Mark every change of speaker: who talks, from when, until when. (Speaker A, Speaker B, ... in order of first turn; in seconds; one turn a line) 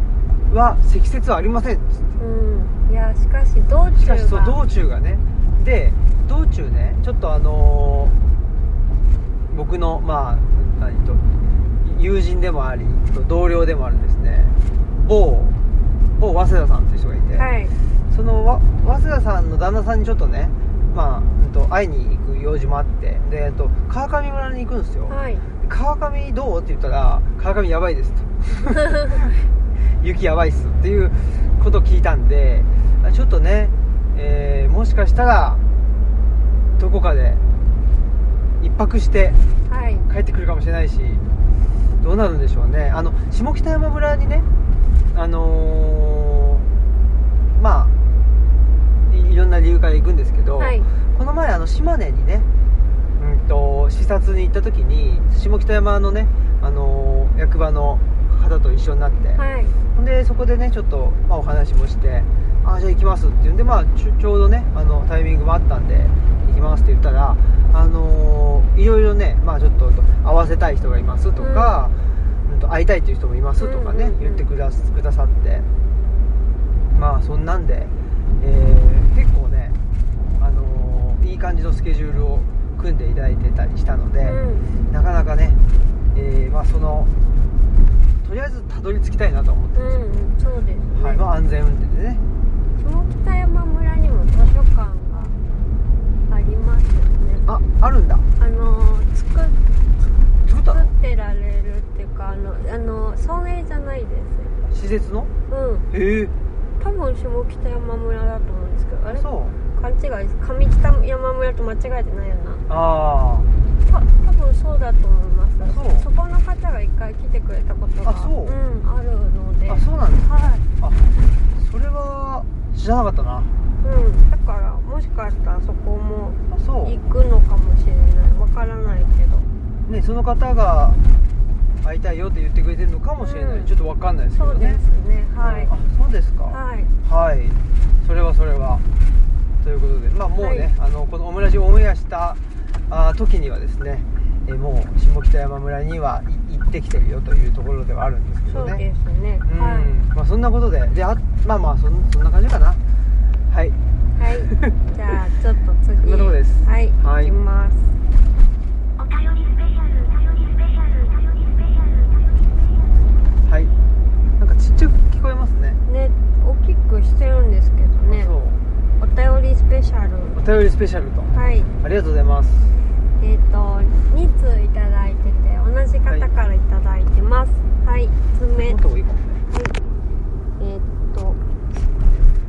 Speaker A: 0.5-2.0
Speaker B: 2.2-4.6
Speaker A: 3.9-8.2
Speaker A: 9.5-11.2
Speaker A: 11.8-15.6
Speaker A: 16.2-17.5
Speaker B: 17.3-17.8
Speaker A: 18.1-29.5
Speaker B: 25.1-25.4
Speaker A: 30.0-35.6
Speaker A: 36.8-37.4
Speaker A: 38.6-39.4
Speaker B: 39.6-40.1
Speaker A: 40.1-41.2
Speaker A: 42.0-44.5
Speaker A: 45.1-46.7
Speaker A: 47.5-47.9
Speaker A: 49.1-52.5
Speaker B: 50.6-50.9
Speaker A: 53.2-59.4
Speaker B: 59.4-59.8
Speaker A: 59.9-75.7
Speaker B: 71.4-71.7
Speaker B: 73.6-74.5
Speaker A: 76.9-79.8
Speaker A: 80.4-85.6
Speaker B: 84.2-84.7
Speaker A: 86.1-87.1
Speaker A: 88.2-90.0
Speaker B: 89.7-91.2
Speaker A: 90.9-92.2
Speaker B: 92.8-95.3
Speaker B: 96.3-97.5
Speaker A: 97.5-98.3
Speaker B: 98.4-99.6
Speaker A: 100.4-100.9
Speaker B: 100.7-104.5
Speaker A: 104.6-105.3
Speaker B: 105.5-105.9
Speaker A: 105.9-106.3
Speaker B: 106.8-112.6
Speaker A: 109.1-109.6
Speaker A: 112.7-113.5
Speaker B: 113.8-120.7
Speaker A: 115.7-116.1
Speaker A: 118.0-118.6
Speaker A: 119.7-121.0
Speaker A: 121.5-123.5
Speaker B: 123.8-129.5
Speaker A: 126.5-127.0
Speaker A: 129.9-131.0
Speaker A: 131.8-134.8
Speaker B: 133.2-133.7
Speaker B: 134.4-135.7
Speaker A: 135.4-138.8
Speaker B: 136.5-136.9
Speaker A: 139.6-148.8
Speaker B: 140.4-140.7
Speaker B: 148.5-149.9
Speaker A: 149.4-152.8
Speaker A: 153.5-153.8
Speaker B: 154.2-157.9
Speaker A: 154.5-154.8
Speaker A: 156.0-157.3
Speaker C: 159.0-163.0
Speaker A: 163.4-163.7
Speaker A: 164.4-165.8
Speaker B: 165.8-168.3
Speaker A: 168.1-168.6
Speaker B: 169.0-170.4
Speaker A: 170.3-172.8
Speaker B: 171.3-171.7
Speaker B: 173.2-178.8
Speaker A: 178.5-179.4
Speaker B: 179.5-179.8
Speaker B: 180.6-181.4